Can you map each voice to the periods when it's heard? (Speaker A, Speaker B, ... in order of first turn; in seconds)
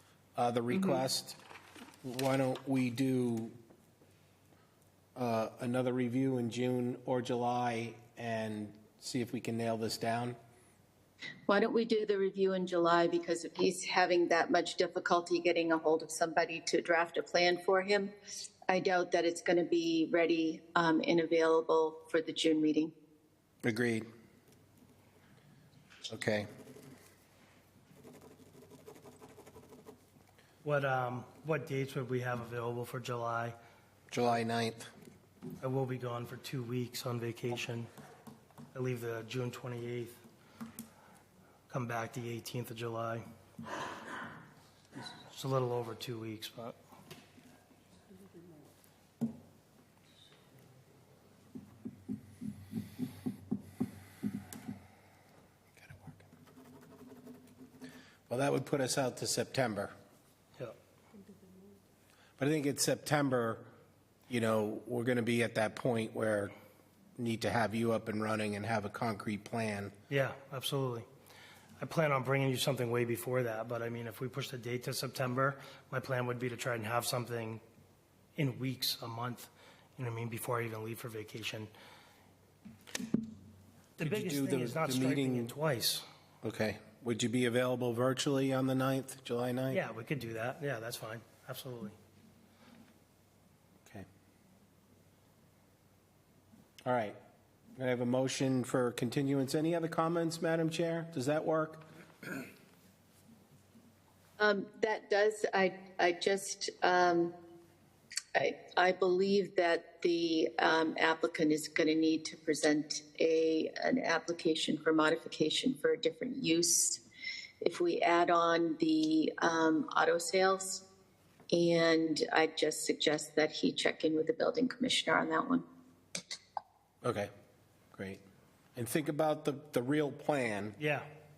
Speaker A: 0.4-1.4, 2.0-3.5, 5.2-10.4, 23.6-24.1, 26.1-26.5, 34.1-34.9, 55.9-56.1, 58.3-59.9, 62.4-63.7, 64.3-66.5, 67.2-69.9, 84.0-85.5, 86.4-89.8, 96.8-97.2, 97.8-101.8, 127.0-127.3, 127.9-128.2, 128.8-130.8
Speaker B: 11.5-18.1, 18.7-22.9, 104.4-107.3, 108.3-117.0, 117.6-120.8, 121.5-125.6
Speaker C: 30.6-33.5, 35.6-37.9, 38.7-40.2, 41.7-43.2, 45.3-46.8, 70.1-71.1, 71.8-77.6, 78.4-81.7, 84.0-86.0, 89.7-92.0, 130.8-131.1